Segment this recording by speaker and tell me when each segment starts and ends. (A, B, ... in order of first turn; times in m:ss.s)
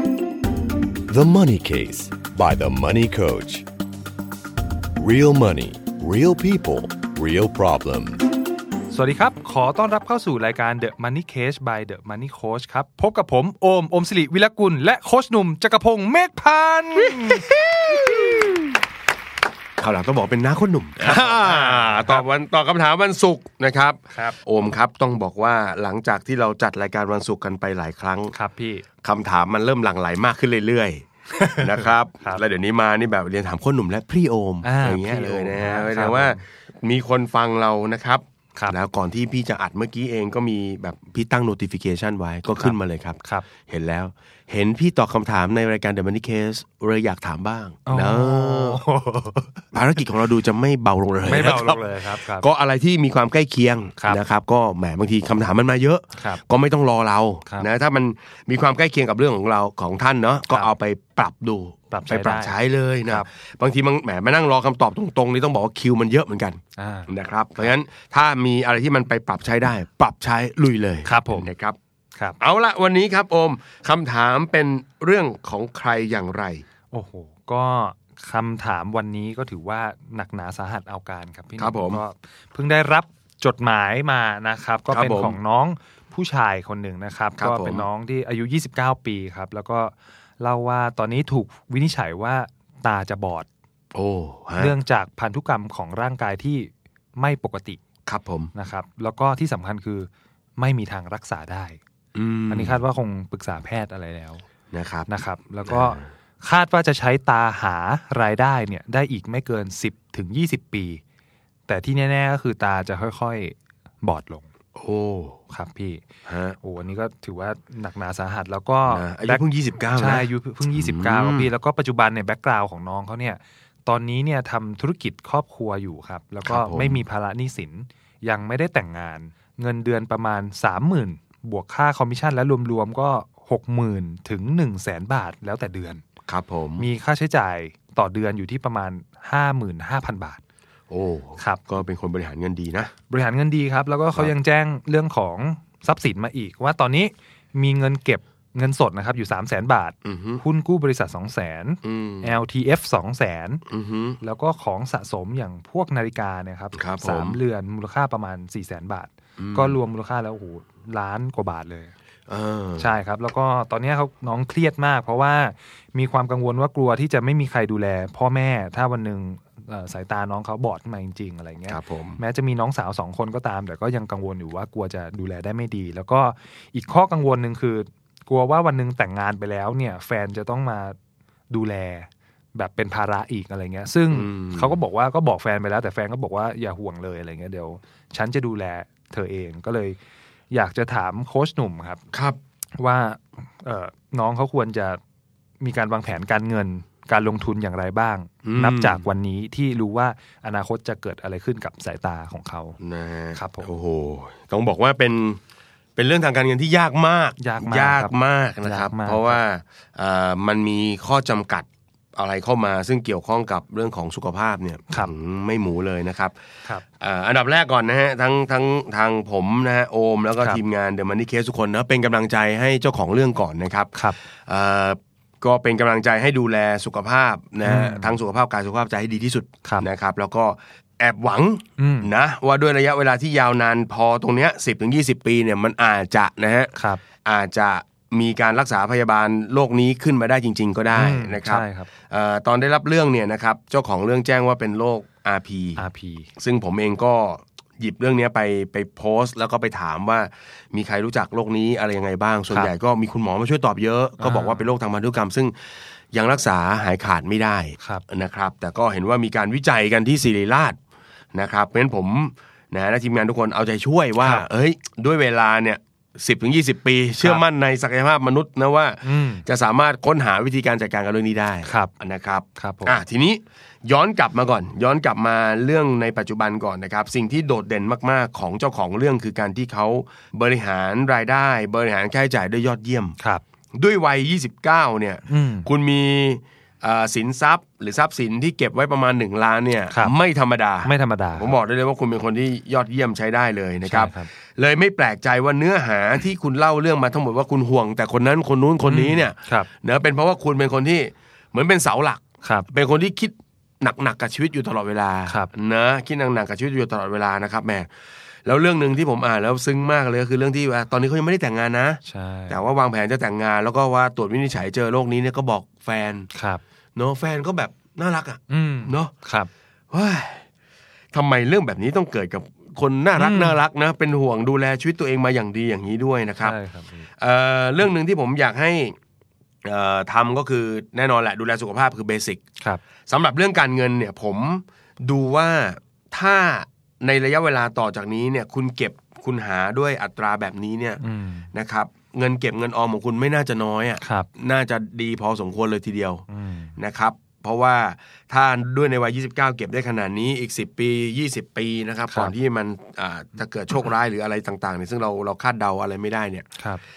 0:01.1-0:03.7 A
0:05.0-0:08.3 A
0:08.9-0:18.0 B
0:19.8-0:28.3 C
0:21.0-0:22.2 B
0:28.3-0:28.8 B
0:29.0-0:48.8 C
0:31.3-0:32.4 B
0:34.6-0:36.4 B
0:42.6-0:43.4 B
0:47.9-0:49.6 B
0:49.7-1:11.8 C
0:51.2-0:52.5 B
0:56.2-0:56.4 B
1:01.9-1:03.2 B
1:06.8-1:07.7 B
1:11.0-1:11.5 B
1:12.4-1:16.6 C
1:16.9-1:33.5 B
1:21.6-1:22.0 C
1:24.9-1:25.4 C
1:27.4-1:27.9 C
1:33.9-1:34.8 C
1:34.6-1:37.8 B
1:38.1-1:38.5 C
1:38.5-1:41.8 B
1:42.1-1:42.8 C
1:42.5-1:44.4 B
1:44.7-1:45.1 C
1:45.1-1:51.0 B
1:45.7-1:46.1 C
1:51.7-1:54.5 B
1:54.8-1:55.4 C
1:55.5-1:56.0 B
1:56.2-1:56.6 C
1:56.6-2:16.0 B
1:58.9-2:01.5 C
2:06.4-2:07.0 C
2:16.3-2:16.9 C
2:16.8-2:20.4 B
2:20.9-2:22.9 C
2:21.4-2:21.7 B
2:23.1-2:33.6 B
2:30.0-2:30.4 C
2:31.8-2:32.4 C
2:33.7-2:34.2 C
2:34.2-2:41.9 B
2:36.7-2:37.4 C
2:39.4-2:39.8 C
2:42.3-2:42.9 C
2:42.8-3:01.0 B
2:51.7-2:52.2 C
3:01.5-3:10.0 B
3:04.1-3:04.8 C
3:10.5-3:12.0 B
3:12.1-3:12.4 C
3:12.8-3:15.0 B
3:15.6-3:22.8 B
3:18.4-3:19.0 C
3:22.8-3:25.4 C
3:23.3-3:23.7 B
3:26.0-3:36.4 C
3:27.4-3:29.4 B
3:37.0-3:56.7 C
3:47.6-3:48.2 B
3:51.8-3:52.1 B
3:56.8-3:57.0 B
3:57.2-4:05.8 C
4:00.9-4:01.9 B
4:05.8-4:06.3 B
4:06.4-4:15.6 C
4:14.2-4:14.7 B
4:16.1-4:20.8 C
4:21.3-4:43.2 C
4:24.2-4:24.4 B
4:29.0-4:29.4 B
4:31.6-4:31.9 B
4:32.5-4:33.0 B
4:43.7-5:07.9 C
4:45.3-4:45.7 B
4:50.8-4:51.5 B
4:53.8-4:54.3 B
4:58.8-4:59.7 B
5:02.4-5:02.7 B
5:08.4-5:16.3 C
5:12.0-5:12.6 B
5:16.3-5:16.6 B
5:17.0-5:19.1 C
5:18.5-5:19.5 B
5:19.9-5:20.4 C
5:21.1-5:26.6 C
5:23.2-5:23.6 B
5:26.4-5:27.1 B
5:27.2-5:29.0 C
5:29.6-5:32.4 C
5:33.1-5:41.0 C
5:41.0-5:41.5 B
5:41.5-5:46.2 C
5:44.0-5:44.3 B
5:46.3-5:46.7 B
5:46.8-5:56.5 C
5:52.1-5:52.3 B
5:56.6-5:56.8 B